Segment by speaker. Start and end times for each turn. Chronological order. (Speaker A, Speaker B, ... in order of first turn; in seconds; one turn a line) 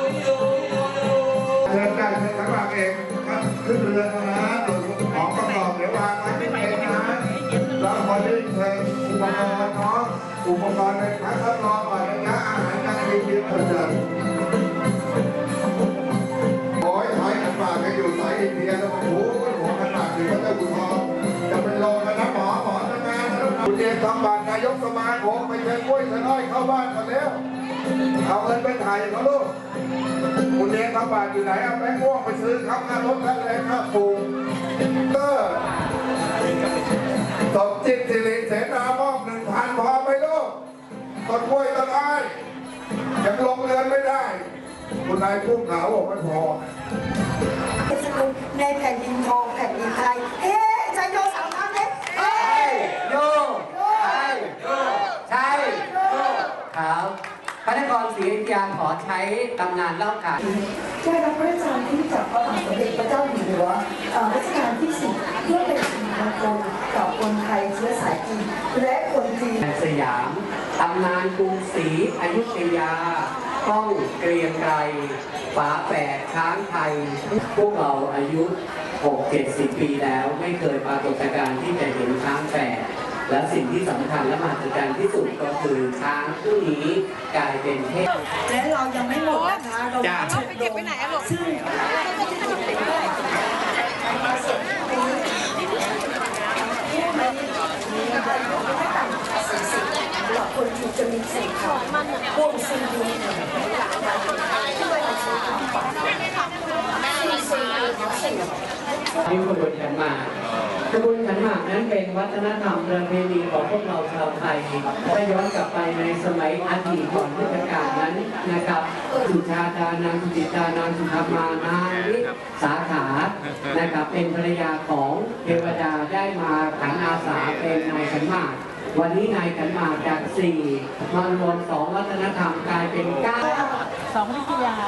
Speaker A: 1.6-7.2
Speaker A: 7.8-14.0
Speaker A: 16.8-27.4
Speaker A: 28.2-29.5
Speaker A: 30.6-34.3
Speaker A: 35.1-35.6
Speaker A: 37.5-40.5
Speaker A: 41.3-42.3
Speaker A: 43.2-44.4
Speaker A: 45.0-46.6
Speaker B: 47.9-52.7
Speaker C: 52.4-60.4
Speaker B: 60.4-69.6
Speaker C: 69.6-88.1
Speaker B: 88.5-93.5
Speaker B: 94.0-95.4
Speaker B: 96.8-108.6
Speaker C: 109.3-110.3
Speaker C: 110.9-133.5
Speaker B: 117.6-118.1
Speaker B: 133.4-133.8